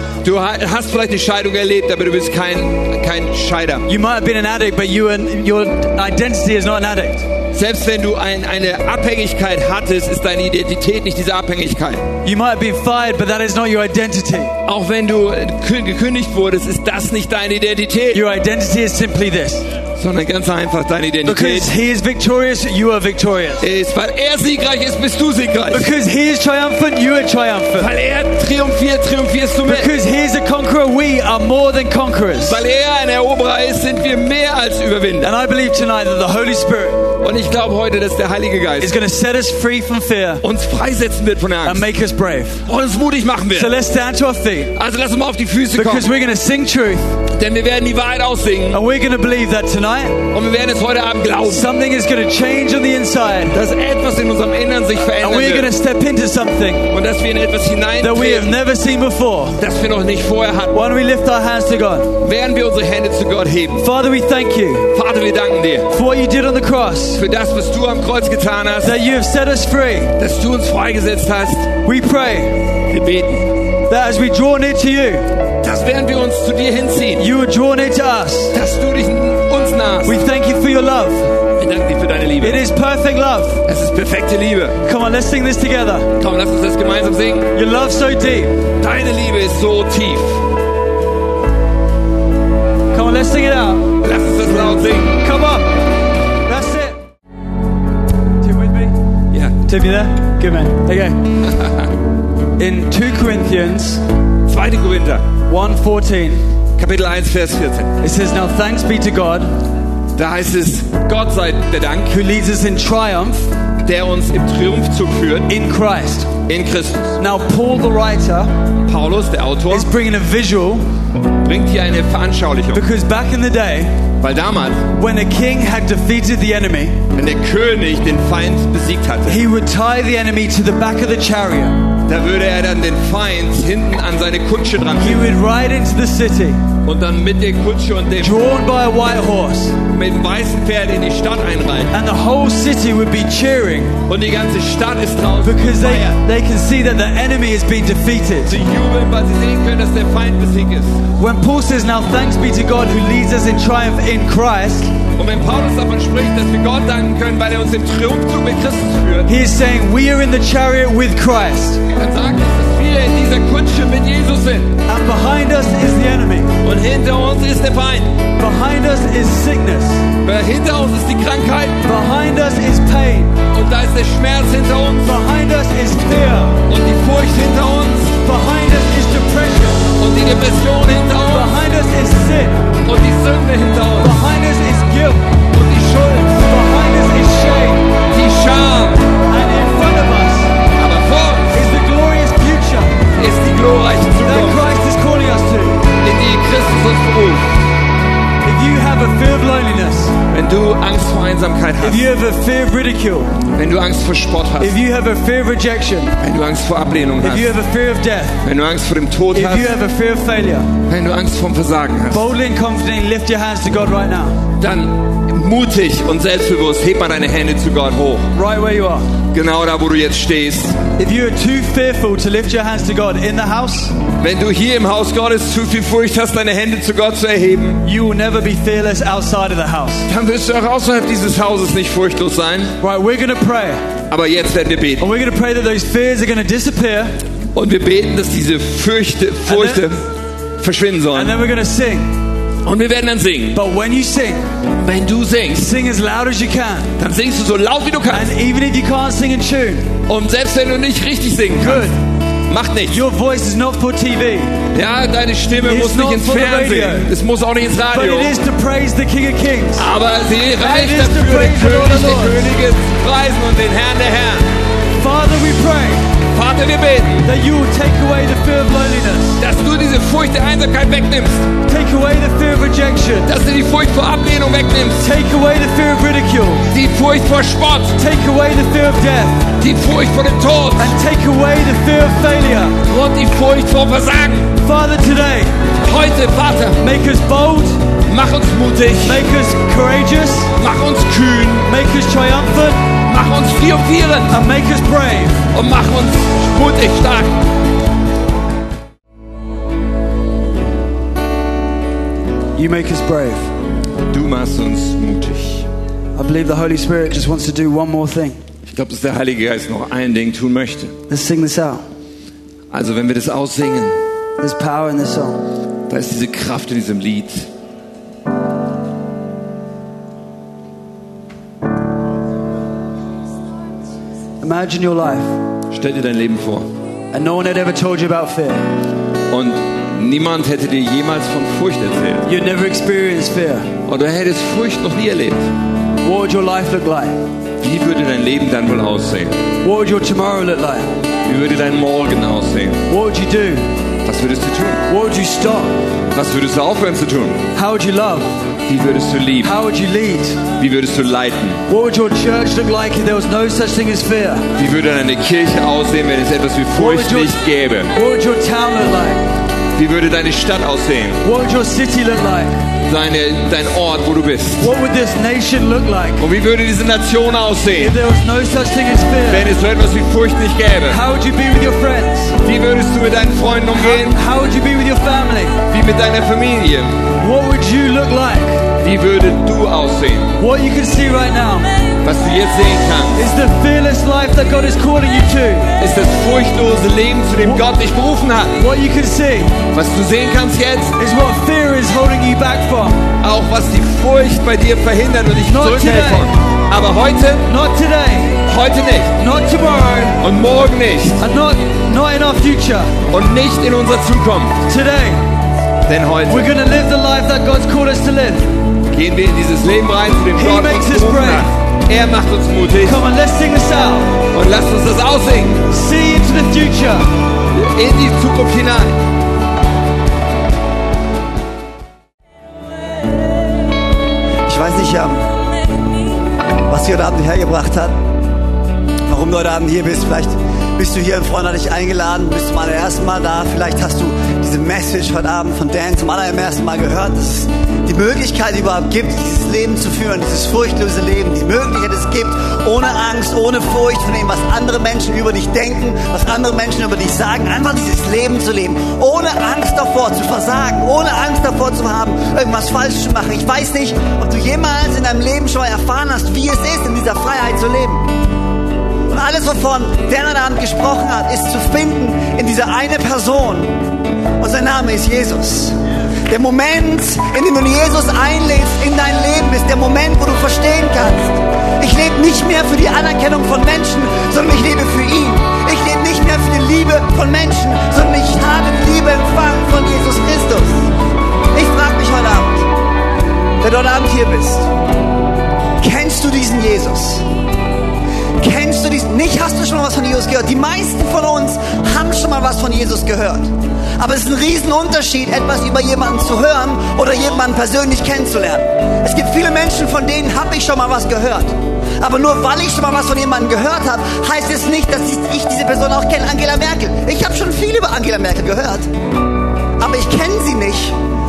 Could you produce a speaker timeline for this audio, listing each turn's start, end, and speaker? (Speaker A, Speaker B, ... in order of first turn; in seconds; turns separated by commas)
Speaker A: 0.2-3.9, Speaker B: 3.9-7.3, Speaker A: 7.5-12.1, Speaker B: 12.2-14.5, Speaker A: 14.7-18.2, Speaker B: 18.1-19.7, Speaker A: 19.9-21.7, Speaker B: 21.2-23.6, Speaker A: 23.6-25.9, Speaker B: 25.7-27.9, Speaker A: 27.8-29.9, Speaker B: 29.7-32.6, Speaker A: 32.4-35.3, Speaker B: 35.2-37.1, Speaker A: 37.2-38.9, Speaker B: 38.8-40.4, Speaker A: 40.4-41.9, Speaker B: 41.6-42.7, Speaker A: 42.7-43.7, Speaker B: 43.5-44.7, Speaker A: 44.8-46.1, Speaker B: 45.7-47.1, Speaker A: 47.3-48.8, Speaker B: 48.7-50.3, Speaker A: 50.3-51.7, Speaker B: 51.5-53.6, Speaker A: 53.5-55.7, Speaker B: 55.2-56.9, Speaker A: 56.9-58.5, Speaker B: 58.0-59.6, Speaker A: 59.6-60.8, Speaker B: 60.7-62.1, Speaker A: 62.2-63.9, Speaker B: 63.8-64.9, Speaker A: 64.9-65.9, Speaker B: 65.9-67.2, Speaker A: 67.2-69.0, Speaker B: 68.8-70.1, Speaker A: 70.2-71.7, Speaker B: 71.8-72.7, Speaker A: 72.8-73.5, Speaker B: 73.9-75.3, Speaker A: 75.6-77.3, Speaker B: 77.2-78.5, Speaker A: 78.5-80.2, Speaker B: 80.1-81.3, Speaker A: 81.6-82.6, Speaker B: 82.4-83.6, Speaker A: 83.7-84.8, Speaker B: 84.8-86.1, Speaker A: 86.2-87.5, Speaker B: 87.5-88.6, Speaker A: 88.8-90.4, Speaker B: 92.9-94.0, Speaker A: 94.0-95.2, Speaker B: 95.1-95.8, Speaker B: 96.5-97.0, Speaker B: 98.4-99.0, Speaker A: 99.3-99.6, Speaker B: 99.6-101.3, Speaker A: 101.5-101.9, Speaker B: 102.6-104.0, Speaker A: 104.5-105.3, Speaker B: 105.5-106.5, Speaker A: 106.8-107.9, Speaker B: 108.0-109.6, Speaker A: 110.2-112.2, Speaker B: 112.1-113.5, Speaker A: 113.8-115.5, Speaker B: 115.5-116.3, Speaker A: 116.5-117.2, Speaker B: 117.2-118.5, Speaker A: 118.8-119.9, Speaker B: 119.7-120.8, Speaker A: 121.4-122.8, Speaker B: 122.7-124.0, Speaker A: 124.2-124.9, Speaker B: 124.9-127.0, Speaker A: 127.1-129.5, Speaker B: 129.3-131.8, Speaker A: 132.1-135.3, Speaker B: 135.0-136.6, Speaker A: 136.8-138.5, Speaker B: 138.2-139.8, Speaker A: 139.9-141.9, Speaker B: 141.9-144.0, Speaker A: 144.1-146.2, Speaker B: 145.4-148.6, Speaker A: 148.5-151.0, Speaker B: 151.2-154.9, Speaker A: 155.2-159.3, Speaker B: 159.3-161.8, Speaker A: 161.9-164.7, Speaker B: 164.9-166.5, Speaker A: 166.6-168.2, Speaker B: 168.4-170.1, Speaker A: 170.2-171.8, Speaker B: 171.8-173.4, Speaker A: 173.5-175.2, Speaker B: 175.1-176.6, Speaker A: 176.7-178.2, Speaker B: 178.2-179.9, Speaker A: 180.0-181.6, Speaker B: 181.3-182.7, Speaker A: 182.8-184.2, Speaker B: 184.0-185.4, Speaker A: 185.5-186.4, Speaker B: 186.2-187.9, Speaker A: 188.1-189.1, Speaker B: 189.3-190.5, Speaker A: 190.8-191.6, Speaker B: 191.5-193.0, Speaker A: 193.2-194.6, Speaker B: 194.2-195.9, Speaker A: 196.0-197.5, Speaker B: 198.4-200.2, Speaker A: 200.3-202.1, Speaker B: 201.8-203.4, Speaker A: 203.5-204.8, Speaker B: 204.6-206.2, Speaker A: 206.2-207.5, Speaker B: 207.2-208.4, Speaker A: 208.4-209.8, Speaker B: 209.3-210.7, Speaker A: 210.9-212.3, Speaker B: 212.1-214.4, Speaker A: 214.6-218.3, Speaker B: 218.3-219.1, Speaker A: 219.3-220.8, Speaker B: 221.0-224.0, Speaker A: 224.2-227.8, Speaker B: 227.8-230.1, Speaker A: 230.1-232.8, Speaker B: 232.8-233.9, Speaker A: 234.1-235.1, Speaker B: 235.0-237.2, Speaker A: 237.5-240.1, Speaker B: 239.5-239.9, Speaker A: 240.6-241.4, Speaker B: 241.1-242.1, Speaker A: 242.7-243.6, Speaker B: 243.6-244.5, Speaker A: 244.7-245.7, Speaker B: 245.6-246.9, Speaker A: 247.0-248.3, Speaker B: 248.1-249.9, Speaker A: 250.1-251.9, Speaker B: 251.6-252.0, Speaker A: 252.5-253.0, Speaker B: 252.9-254.6, Speaker A: 254.7-258.3, Speaker B: 255.6-257.1, Speaker B: 257.9-259.9, Speaker A: 259.8-264.5, Speaker B: 260.6-262.5, Speaker B: 265.0-266.1, Speaker A: 266.3-267.3, Speaker B: 267.2-269.4, Speaker A: 269.4-271.5, Speaker B: 271.7-273.3, Speaker A: 273.2-275.1, Speaker B: 275.0-276.7, Speaker A: 276.7-278.0, Speaker B: 278.0-279.5, Speaker A: 279.6-280.9, Speaker B: 280.8-282.8, Speaker A: 282.9-284.5, Speaker B: 284.6-285.6, Speaker A: 285.8-286.8, Speaker B: 286.8-287.9, Speaker A: 288.1-289.3, Speaker B: 289.1-290.5, Speaker A: 290.6-291.7, Speaker B: 291.7-292.8, Speaker A: 293.1-294.4, Speaker B: 294.3-295.4, Speaker A: 295.5-297.4, Speaker B: 302.6-303.5, Speaker A: 304.1-305.7, Speaker B: 306.1-308.4, Speaker A: 308.7-311.0, Speaker B: 311.1-311.8, Speaker A: 312.7-314.0, Speaker B: 314.4-315.4, Speaker A: 315.9-317.5, Speaker B: 324.4-325.4, Speaker A: 325.7-326.7, Speaker B: 327.1-328.6, Speaker A: 329.3-332.3, Speaker B: 332.3-333.7, Speaker A: 333.9-335.5, Speaker B: 336.0-337.2, Speaker A: 337.6-339.4, Speaker B: 339.6-340.9, Speaker A: 341.2-342.8, Speaker B: 342.9-343.7, Speaker A: 344.0-344.8, Speaker B: 344.9-345.8, Speaker A: 346.1-347.5, Speaker B: 347.6-348.4, Speaker A: 348.7-349.5, Speaker B: 349.4-350.4, Speaker A: 350.6-351.6, Speaker B: 351.7-354.5, Speaker A: 354.6-357.9, Speaker B: 356.8-357.4, Speaker B: 357.9-359.3, Speaker A: 359.8-361.2, Speaker B: 361.2-362.6, Speaker A: 362.9-364.7, Speaker B: 364.6-366.2, Speaker A: 366.2-368.0, Speaker B: 367.8-369.5, Speaker A: 369.3-371.0, Speaker B: 370.9-372.4, Speaker A: 372.4-374.2, Speaker B: 373.7-375.6, Speaker A: 375.7-377.0, Speaker B: 377.2-378.7, Speaker A: 378.8-380.3, Speaker B: 380.4-381.7, Speaker A: 382.0-383.2, Speaker B: 383.2-385.7, Speaker A: 385.8-388.6, Speaker B: 388.6-389.6, Speaker A: 389.7-391.0, Speaker B: 391.0-393.0, Speaker A: 393.2-397.5, Speaker B: 395.5-396.3, Speaker B: 397.5-398.4, Speaker A: 398.4-399.1, Speaker B: 399.2-400.2, Speaker A: 400.2-401.2, Speaker B: 401.2-402.9, Speaker A: 403.1-404.6, Speaker B: 404.7-405.2, Speaker A: 405.9-406.5, Speaker B: 406.3-408.5, Speaker A: 408.9-413.0, Speaker B: 410.4-411.5, Speaker B: 412.8-414.2, Speaker A: 414.3-415.6, Speaker B: 415.7-417.1, Speaker A: 417.5-419.0, Speaker C: 424.5-425.2, Speaker C: 426.7-428.0, Speaker C: 429.1-458.1, Speaker C: 459.1-463.8, Speaker C: 464.4-465.7, Speaker C: 466.3-480.9, Speaker C: 481.5-482.7, Speaker C: 483.6-484.7, Speaker C: 485.8-487.2, Speaker C: 488.4-508.9, Speaker C: 509.8-511.0